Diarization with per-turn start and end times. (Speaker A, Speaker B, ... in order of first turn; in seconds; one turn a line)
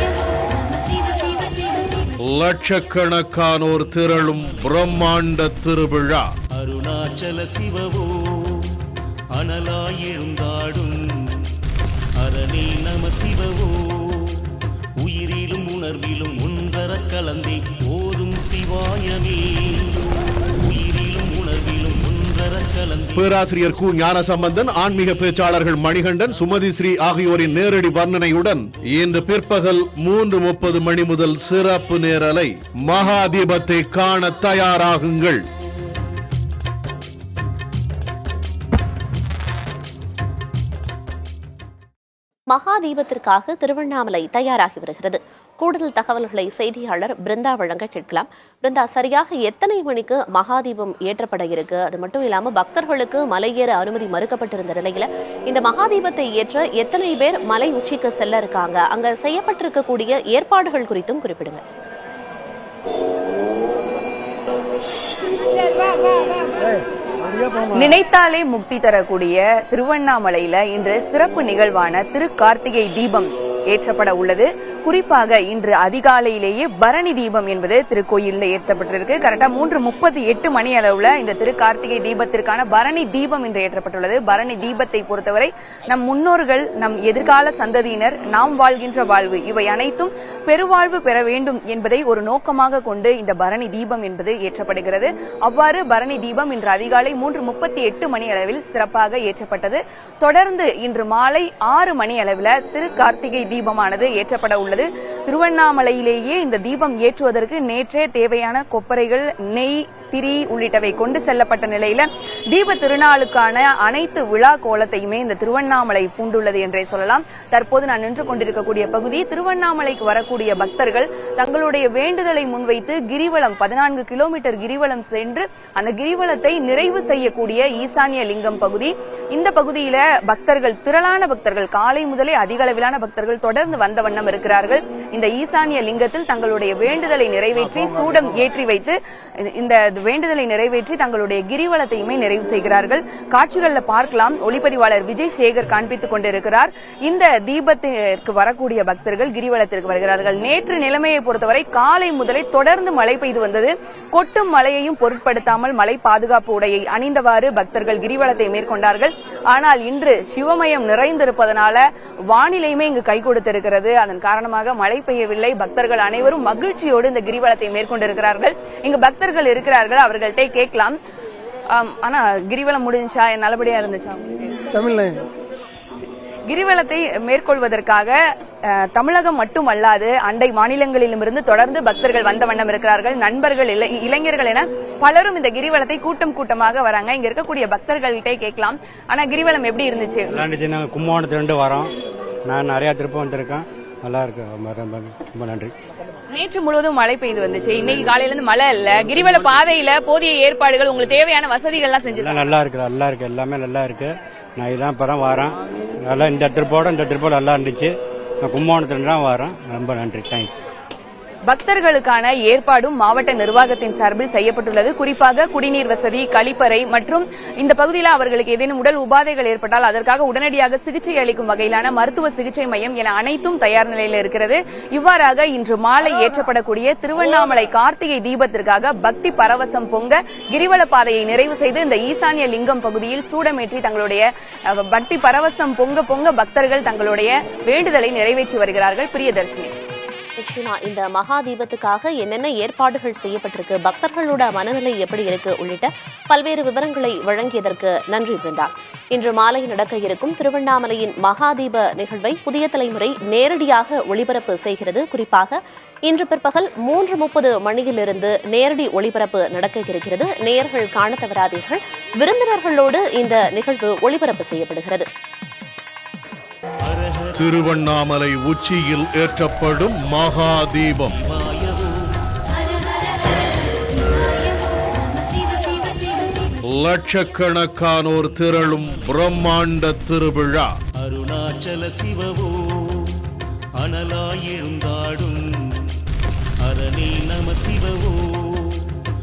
Speaker A: 2.2-6.3
Speaker B: 6.5-8.8
Speaker B: 9.3-11.4
Speaker B: 12.2-14.4
Speaker B: 15.0-20.0
Speaker B: 20.6-23.3
Speaker A: 23.1-35.4
Speaker C: 42.5-61.6
Speaker D: 67.6-171.0
Speaker D: 171.7-175.2
Speaker D: 176.5-190.3
Speaker E: 190.3-191.9
Speaker E: 192.5-195.7
Speaker D: 196.3-202.4
Speaker E: 202.1-207.9
Speaker E: 208.4-210.5
Speaker D: 211.5-239.7
Speaker C: 240.4-265.1
Speaker B: 266.8-267.6
Speaker A: 267.4-271.2
Speaker B: 271.0-272.1
Speaker A: 276.7-280.7
Speaker B: 281.0-283.2
Speaker B: 283.8-285.9
Speaker B: 286.6-288.9